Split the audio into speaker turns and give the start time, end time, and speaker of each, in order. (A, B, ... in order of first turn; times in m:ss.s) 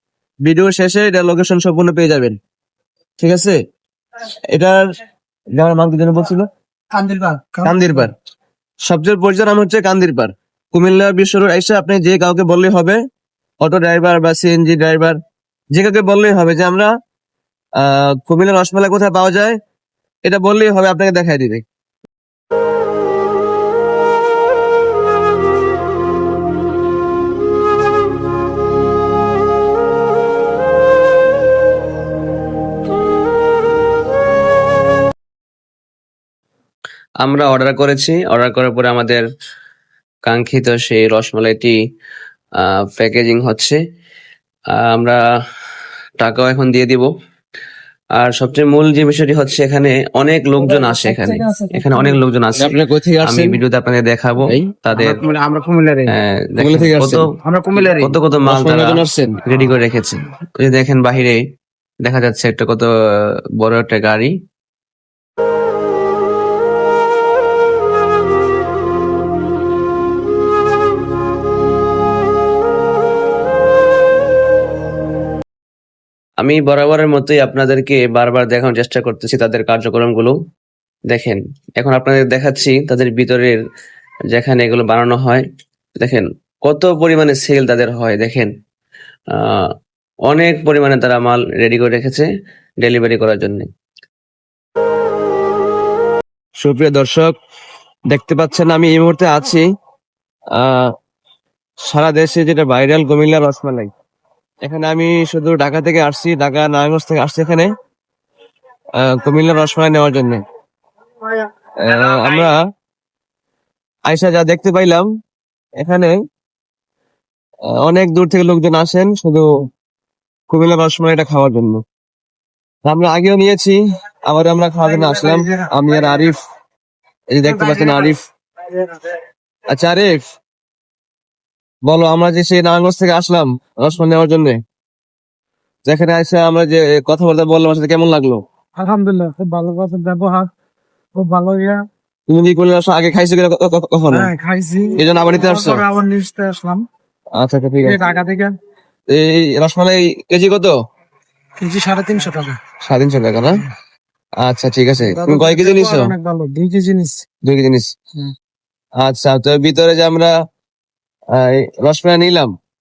0:00.4-0:02.4 A
0:03.2-0:03.6 A
0:04.5-0:04.8 A
0:05.6-0:06.5 A
0:06.9-0:08.0 B
0:07.6-0:08.1 A
0:08.8-0:13.0 A
0:13.6-0:15.2 A
0:15.7-0:16.9 A
0:17.8-0:19.6 A
0:20.2-0:21.6 A
0:37.2-0:39.2 C
0:40.3-0:41.8 C
0:42.6-0:43.8 C
0:44.8-0:45.2 C
0:46.2-0:47.1 C
0:48.2-0:55.2 C
0:50.8-0:51.3 B
0:51.8-0:52.1 B
0:52.6-0:53.6 A
0:54.4-0:54.7 A
0:56.1-0:57.3 C
0:56.6-0:57.3 A
0:57.8-1:01.4 C
0:58.5-0:59.4 A
1:02.0-1:02.9 C
1:03.6-1:04.3 C
1:16.4-1:20.3 C
1:21.1-1:23.6 C
1:24.3-1:25.4 C
1:26.0-1:28.5 C
1:29.4-1:29.6 C
1:30.3-1:32.3 C
1:32.8-1:33.7 C
1:36.6-1:37.3 A
1:38.1-1:39.6 A
1:40.6-1:40.9 A
1:41.9-1:43.9 A
1:44.6-1:47.7 A
1:49.0-1:50.4 A
1:51.8-1:52.6 A
1:54.1-1:55.1 A
1:55.8-1:56.2 A
1:57.8-1:59.5 A
2:00.5-2:01.8 A
2:02.9-2:06.4 A
2:05.0-2:05.5 B
2:07.3-2:08.2 A
2:07.5-2:08.1 B
2:08.7-2:09.1 B
2:09.7-2:10.2 A
2:11.9-2:14.6 A
2:15.9-2:18.4 A
2:18.8-2:20.5 B
2:21.2-2:21.8 B
2:22.3-2:24.3 A
2:24.1-2:26.8 B
2:25.0-2:25.8 A
2:27.4-2:28.0 A
2:27.8-2:28.5 B
2:29.1-2:30.7 A
2:31.6-2:32.6 B
2:32.8-2:33.6 A
2:34.4-2:36.1 A
2:35.1-2:37.2 B
2:37.4-2:37.9 A
2:39.0-2:40.3 A
2:41.3-2:42.5 A